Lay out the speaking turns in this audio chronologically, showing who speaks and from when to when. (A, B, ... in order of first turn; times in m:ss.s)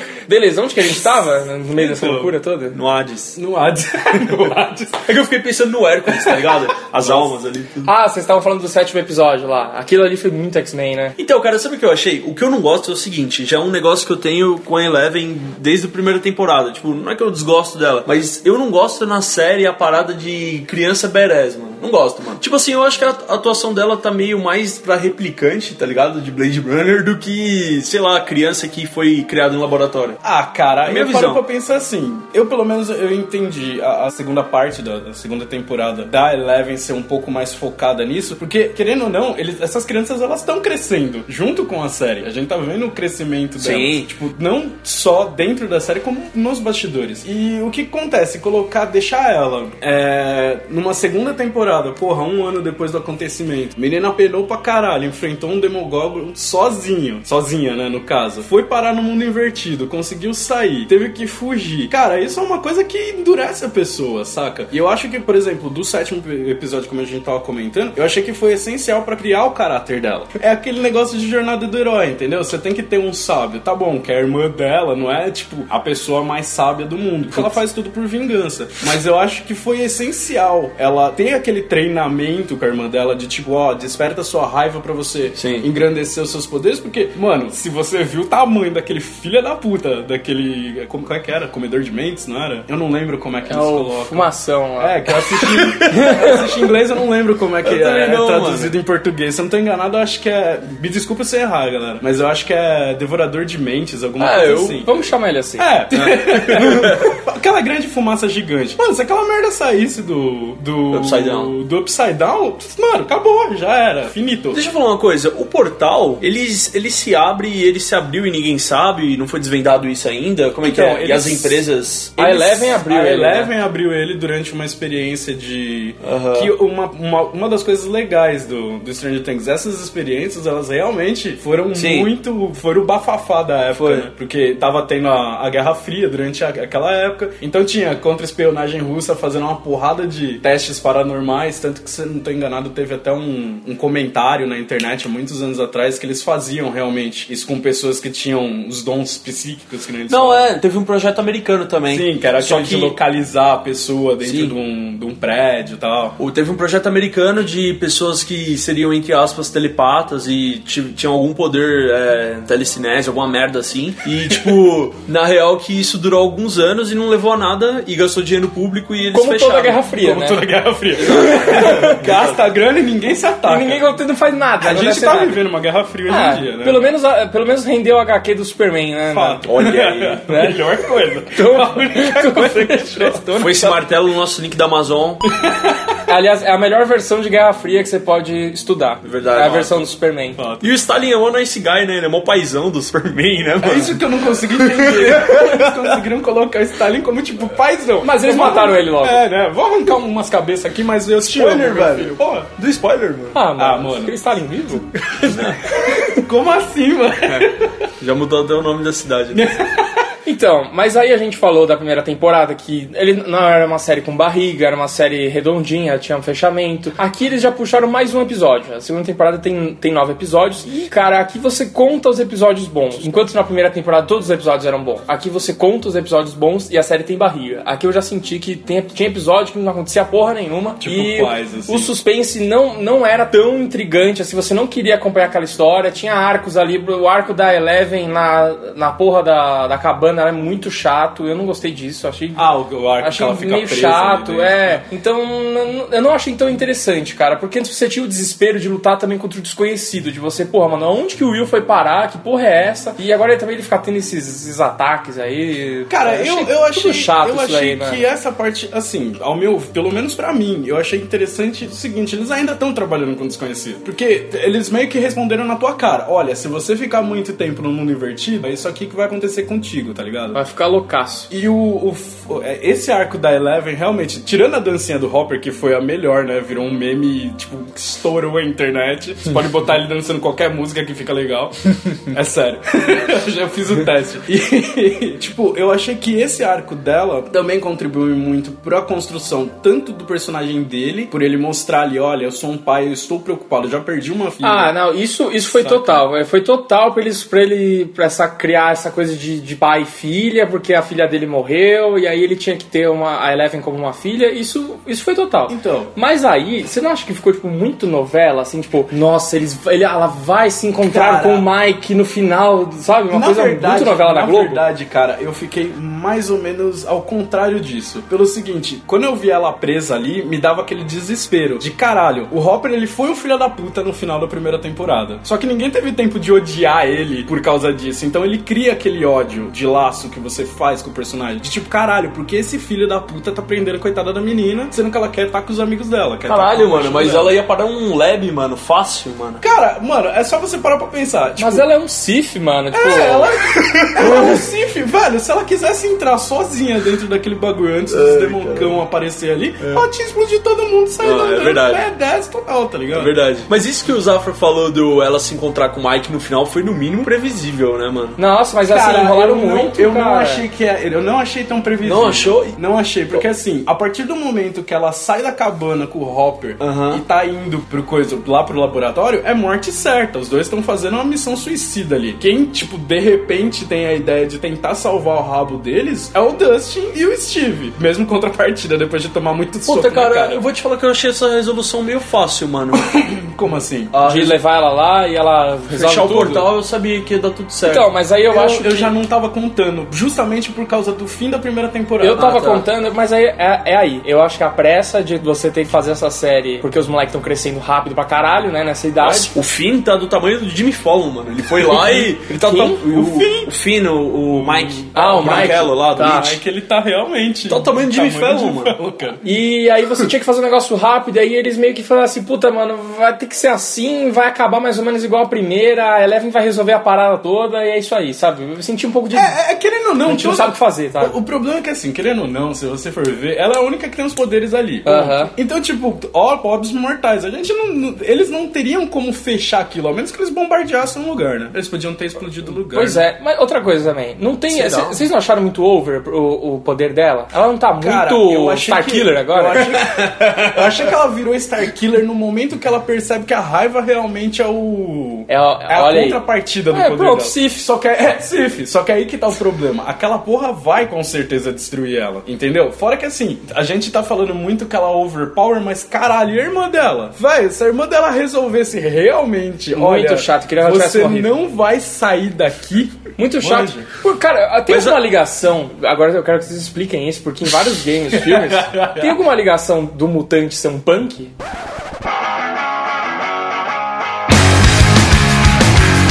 0:00.3-0:02.8 A
0:01.7-0:02.3 B
0:02.7-0:03.4 C
0:03.4-0:05.1 B
0:05.0-0:07.9 C
0:06.1-0:07.3 B
0:07.8-0:11.1 A
0:11.2-0:30.2 C
0:30.2-1:44.9 B
0:30.9-0:31.4 C
0:43.6-0:44.1 C
1:25.4-1:25.7 C
1:33.5-1:35.0 A
1:35.4-1:36.4 C
1:35.9-1:36.4 A
1:37.6-1:38.7 C
1:44.2-1:45.7 A
1:44.3-1:44.6 C
1:45.6-1:54.6 B
1:45.9-1:47.1 C
1:50.9-1:51.5 C
1:54.5-2:02.1 C
2:00.6-2:01.6 B
2:02.2-2:30.5 B
2:02.2-2:03.5 A
2:06.0-2:06.5 C
2:11.7-2:12.1 C
2:13.7-2:14.1 C
2:30.1-2:33.0 C
2:31.9-2:36.2 B
2:34.2-2:34.5 C
2:36.2-2:49.8 C
2:49.1-2:50.5 A
2:50.0-2:53.9 B
2:51.0-2:52.4 C
2:51.0-2:52.0 A
2:53.4-2:55.4 A
2:54.6-2:56.9 B
2:56.1-2:59.5 A
2:59.1-3:03.8 B
2:59.5-3:00.3 C
3:00.3-3:00.6 A
3:01.3-3:03.2 A
3:03.3-3:05.2 C
3:05.2-3:06.0 B
3:06.1-3:10.4 A
3:09.0-3:09.8 C
3:10.4-3:10.7 B
3:10.6-3:16.0 C
3:13.6-3:22.5 B
3:18.0-3:19.2 A
3:21.3-3:23.4 C
3:23.3-3:24.9 A
3:23.6-3:24.2 B
3:25.0-3:25.6 C
3:25.4-3:27.7 B
3:28.0-3:29.5 C
3:29.3-3:30.0 B
3:30.2-4:02.5 A
3:50.8-3:51.9 B
4:02.4-4:04.8 B
4:03.0-4:18.0 A
4:15.9-4:30.4 B
4:30.3-4:31.3 A
4:31.3-4:54.7 B
4:54.4-5:14.6 A
4:55.5-4:56.0 B
5:05.5-5:05.9 B
5:10.9-5:11.5 B
5:13.1-5:37.4 B
5:36.2-5:39.4 C
5:39.4-5:41.7 B
5:41.4-5:43.3 A
5:42.7-5:53.1 B
5:47.9-5:48.8 C
5:49.6-5:49.8 C
5:51.0-5:51.8 C
5:52.9-5:58.2 C
5:58.2-6:00.4 A
5:58.7-6:20.4 B
6:01.8-6:02.6 C
6:06.6-6:07.0 C
6:19.6-6:22.9 C
6:22.7-6:24.0 B
6:23.9-6:24.4 C
6:24.0-6:26.5 A
6:25.7-6:27.9 C
6:27.6-6:28.9 A
6:28.3-6:32.3 B
6:32.0-6:39.3 A
6:32.1-6:32.7 C
6:39.0-6:46.3 C
6:41.7-6:42.1 B
6:41.9-6:42.8 A
6:42.8-6:43.5 B
6:44.3-6:49.2 B
6:45.0-6:46.3 A
6:47.5-6:48.8 C
6:49.2-6:59.4 A
6:59.1-7:13.0 B
7:00.0-7:01.2 A
7:04.8-7:05.3 A
7:12.7-7:19.7 A
7:14.5-7:15.0 C
7:17.8-7:43.9 B
7:19.7-7:20.6 C
7:25.3-7:27.6 A
7:39.7-7:41.3 A
7:43.2-7:51.3 A
7:44.7-7:45.0 C
7:48.1-7:49.2 B